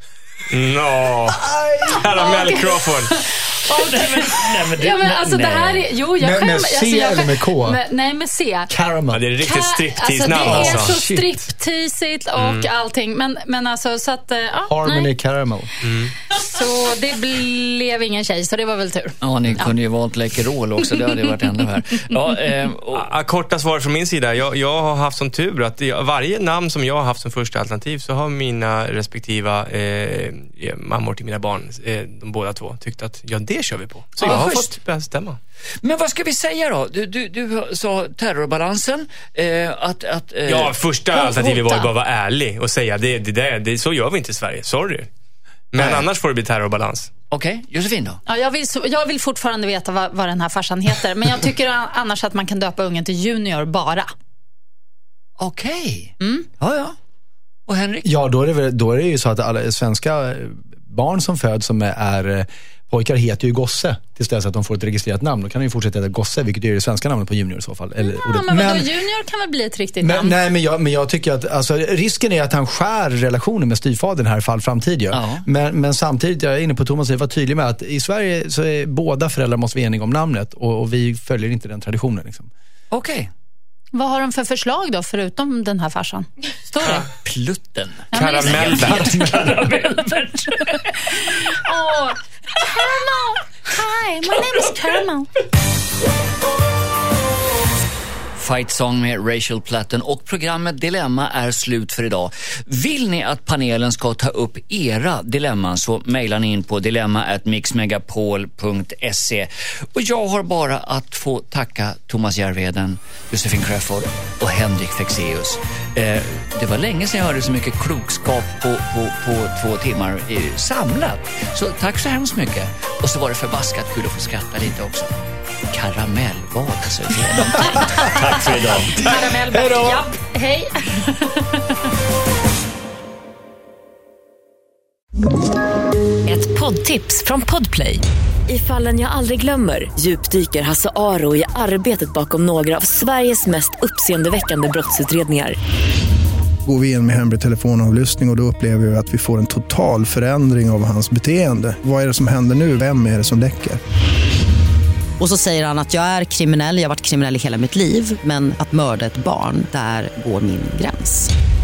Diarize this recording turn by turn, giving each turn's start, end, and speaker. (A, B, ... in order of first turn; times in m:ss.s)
0:00.5-0:03.2 A
0:01.3-0:02.3 B
0:02.1-0:08.7 C
0:03.6-0:05.9 D
0:06.2-0:07.8 B
0:08.7-0:09.2 B
0:09.1-0:11.0 A
0:09.4-0:15.1 C
0:10.5-0:11.1 B
0:12.4-0:12.7 A
0:14.7-0:15.7 B
0:15.8-0:16.1 A
0:16.3-0:19.7 C
0:19.2-0:23.1 D
0:22.9-0:35.4 A
0:34.2-0:34.7 D
0:35.8-0:40.7 D
0:40.5-0:45.1 A
0:41.1-0:41.9 C
0:45.7-0:47.1 A
0:45.8-0:46.1 D
0:47.3-0:48.2 D
0:48.3-0:54.1 C
0:55.4-0:57.0 D
0:57.7-0:58.1 D
0:58.0-1:08.9 B
1:08.0-1:10.4 C
1:10.0-1:22.5 B
1:15.1-1:15.5 D
1:22.9-1:23.3 D
1:23.9-1:27.1 C
1:26.8-1:31.2 D
1:28.1-1:29.0 C
1:28.1-1:29.3 A
1:31.0-1:35.3 C
1:38.4-2:05.1 D
2:05.7-2:09.0 D
2:07.6-2:08.1 B
2:07.8-2:08.2 C
2:08.8-2:10.1 B
2:09.0-2:11.7 C
2:16.3-2:25.6 E
2:26.6-2:33.8 F
2:35.2-2:41.3 G